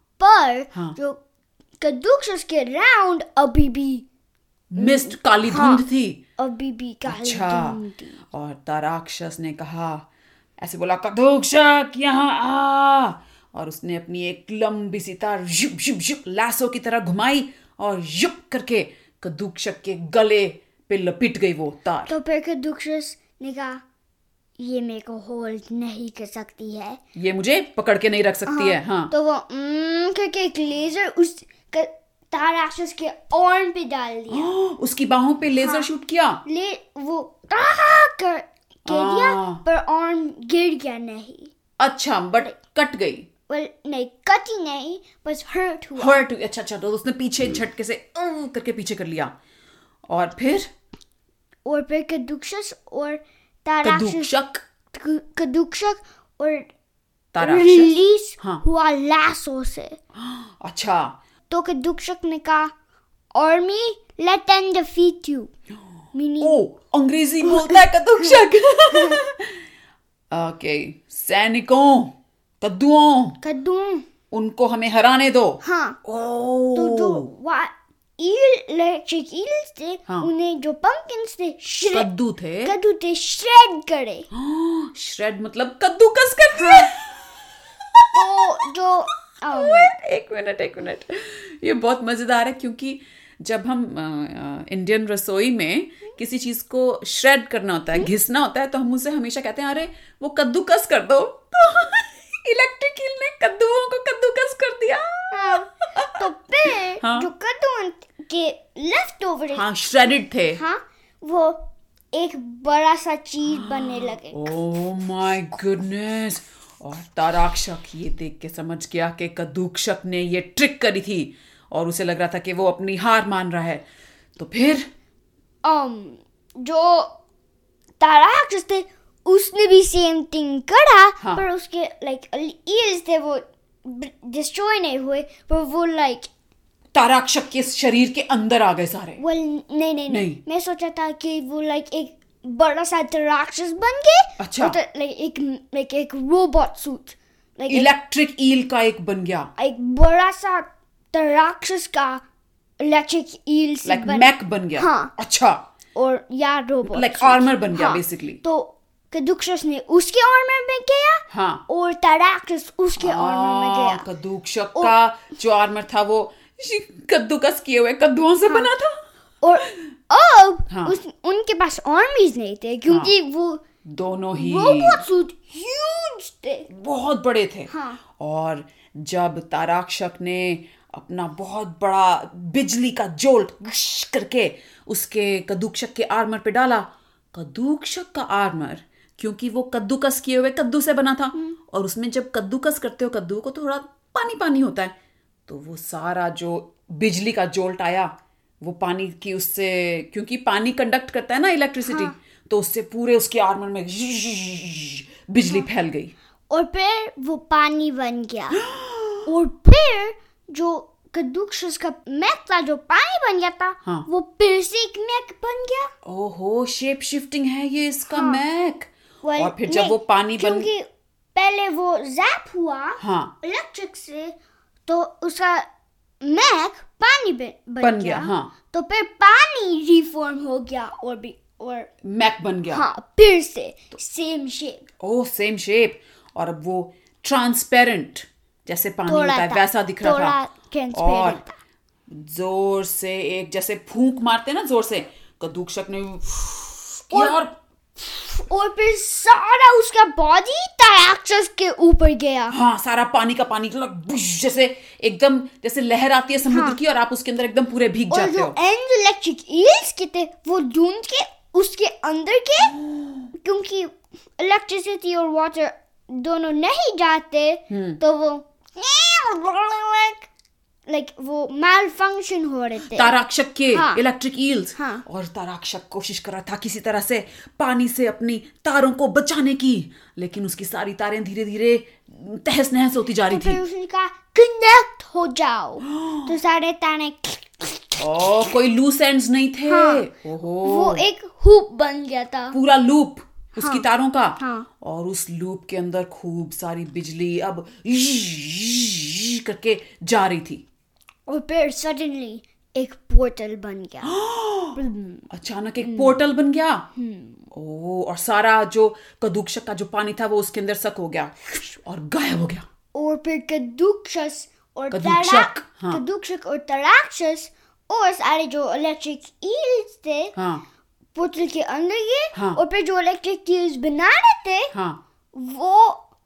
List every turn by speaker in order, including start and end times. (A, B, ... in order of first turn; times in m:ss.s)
0:00.2-0:01.2 A
0:01.8-0:04.0 A
0:04.7-0:06.2 B
0:04.8-0:05.8 A
0:06.4-0:08.2 A
0:07.1-0:07.8 B
0:08.3-0:10.0 B
0:10.6-0:22.1 B
0:22.1-0:23.8 A
0:24.6-0:27.0 A
0:27.2-0:29.1 B
0:28.5-0:34.5 A
0:34.3-0:36.4 B
0:35.6-0:35.9 A
0:36.4-0:41.5 A
0:38.9-0:39.6 B
0:41.8-0:43.3 B
0:43.5-0:46.2 A
0:46.0-0:49.3 B
0:50.1-0:50.7 B
0:51.6-0:54.3 A
0:53.8-0:54.6 B
0:54.9-0:56.7 A
0:57.3-0:58.6 B
0:57.4-1:00.0 A
1:00.2-1:01.2 B
1:01.5-1:02.7 A
1:03.3-1:05.5 A
1:06.1-1:06.6 A
1:06.4-1:09.6 B
1:07.4-1:09.2 A
1:10.3-1:13.4 B
1:13.4-1:14.0 A
1:14.3-1:17.3 B
1:15.6-1:16.0 A
1:16.7-1:22.1 A
1:21.9-1:22.7 B
1:22.6-1:24.3 A
1:24.3-1:27.2 B
1:26.6-1:26.9 A
1:28.1-1:29.9 A
1:29.5-1:46.1 B
1:45.3-1:49.7 A
1:47.0-1:47.3 B
1:49.5-1:50.6 B
1:50.6-1:51.6 A
1:52.1-1:54.5 A
1:53.5-2:03.8 B
2:04.4-2:04.9 B
2:05.6-2:07.1 A
2:08.0-2:16.3 A
2:16.9-2:19.2 B
2:19.2-2:27.9 A
2:20.1-2:20.4 B
2:24.4-2:24.8 B
2:27.7-2:29.5 B
2:29.6-2:32.2 A
2:32.8-2:35.1 A
2:33.8-2:35.6 B
2:35.9-2:44.0 A
2:36.8-2:38.4 B
2:41.3-2:41.6 B
2:43.0-2:49.0 B
2:49.4-2:53.6 A
2:50.7-2:51.0 B
2:52.9-2:53.1 B
2:53.9-2:55.0 B
2:54.3-2:56.7 A
2:56.7-3:14.9 B
2:57.7-2:58.0 A
3:15.5-3:26.1 B
3:21.8-3:22.1 A
3:26.5-3:28.6 A
3:28.6-3:29.2 B
3:29.2-3:35.9 A
3:36.0-3:40.7 B
3:38.1-3:38.4 A
3:39.2-3:45.7 A
3:43.0-3:43.3 B
3:46.2-3:51.9 A
3:47.8-3:48.5 B
3:52.0-3:52.8 B
3:52.7-3:54.9 A
3:55.0-4:00.4 B
3:59.0-4:01.6 A
4:00.9-4:01.4 B
4:02.1-4:07.5 B
4:07.1-4:07.4 A
4:08.0-4:12.6 A
4:12.5-4:18.6 B
4:16.5-4:16.8 A
4:18.1-4:22.8 A
4:22.8-4:23.2 B
4:23.4-4:30.3 A
4:27.7-4:28.0 B
4:30.9-4:33.1 A
4:32.9-4:43.6 B
4:33.7-4:34.0 A
4:34.8-4:35.0 A
4:43.3-4:48.4 A
4:45.8-4:46.3 B
4:48.0-4:51.0 B
4:49.7-4:50.1 A
4:50.6-4:52.6 A
4:52.5-5:00.6 B
4:53.6-4:53.8 A
4:54.4-4:54.7 A
5:01.3-5:04.2 A
5:04.0-5:04.8 B
5:04.7-5:05.2 A
5:05.3-5:06.9 B
5:05.8-5:06.2 A
5:07.0-5:07.5 A
5:07.5-5:12.7 B
5:12.9-5:20.4 A
5:14.9-5:16.0 B
5:20.4-5:20.6 B
5:21.1-5:24.7 A
5:22.3-5:22.6 B
5:24.7-5:25.0 B
5:25.3-5:26.0 A